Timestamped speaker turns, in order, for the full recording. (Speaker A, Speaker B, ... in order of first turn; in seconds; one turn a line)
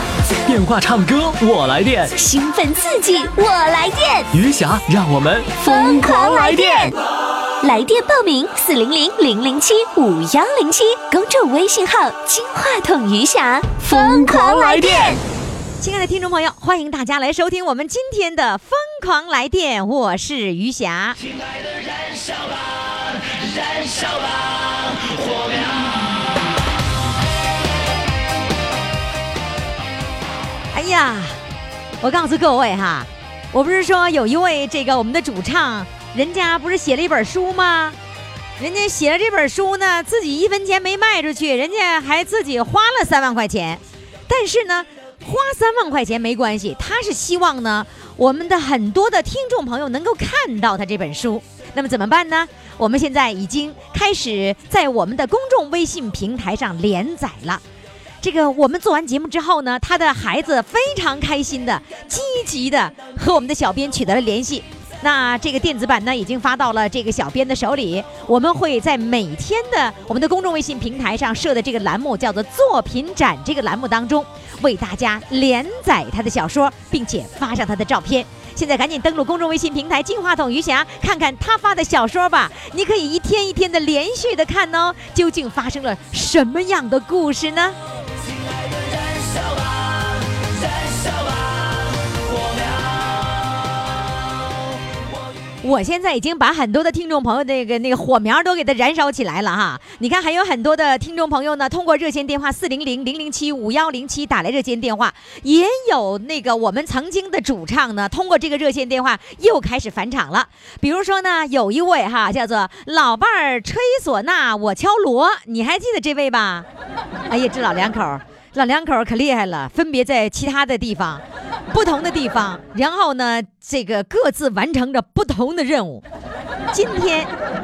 Speaker A: 0.5-2.1
Speaker B: 2.2-4.3
Speaker A: 4.3-6.8
Speaker B: 5.6-7.0
Speaker B: 7.6-15.2
Speaker A: 13.9-15.1
Speaker C: 15.8-21.2
Speaker C: 30.7-31.4
Speaker C: 32.0-38.0
Speaker C: 38.6-57.6
Speaker C: 58.2-87.8
Speaker C: 95.6-116.7
Speaker C: 117.3-126.0
Speaker C: 126.7-127.3